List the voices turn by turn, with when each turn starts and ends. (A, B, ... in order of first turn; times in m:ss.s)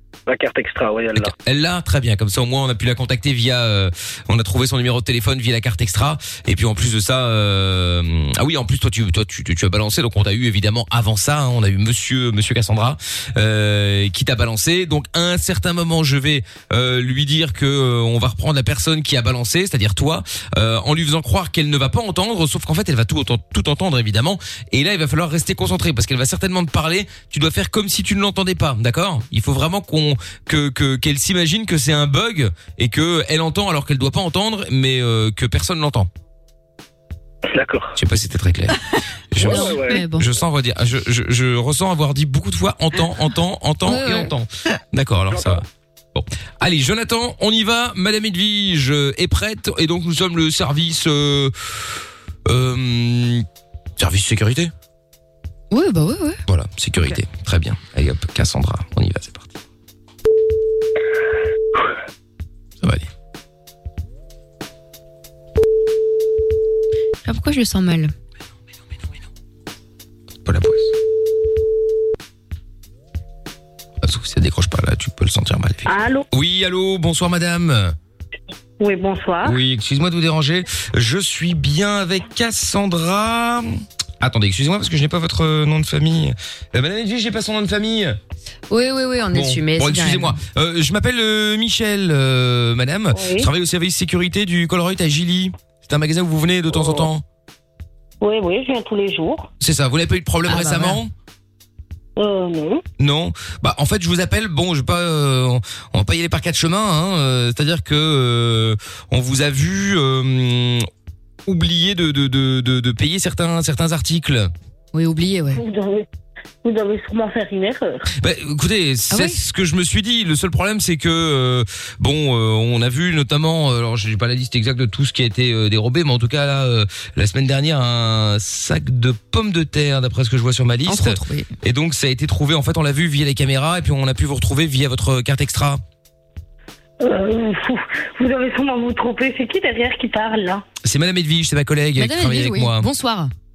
0:00.3-0:01.3 A
0:01.1-0:36.1 B
0:37.5-0:37.9 A
0:38.0-0:38.8 B
0:39.3-0:51.8 B
0:39.4-0:40.0 A
0:39.4-0:40.3 C
0:43.8-0:44.3 C
0:45.3-0:45.6 A
0:52.4-0:53.4 B
0:54.0-0:54.7 B
0:55.7-0:56.4 C
0:56.5-0:59.5 B
1:02.8-1:03.1 B
1:07.2-1:08.1 C
1:10.4-1:10.9 B
1:14.0-1:17.9 B
1:15.8-1:16.3 D
1:18.8-1:19.6 D
1:19.4-1:28.2 B
1:28.7-1:30.4 C
1:29.3-1:37.2 B
1:33.1-1:33.5 D
1:36.7-1:37.1 D
1:38.2-1:39.5 D
1:39.6-1:41.1 B
1:40.5-1:41.0 C
1:42.2-1:42.8 D
1:43.0-1:50.9 B
1:51.4-1:54.5 B
1:54.9-1:55.6 C
1:55.5-1:56.1 D
1:56.6-1:58.0 D
1:58.2-2:15.8 B
1:59.1-1:59.4 C
2:10.9-2:11.5 C
2:17.0-2:20.6 D
2:20.8-2:22.9 B
2:22.0-2:23.3 C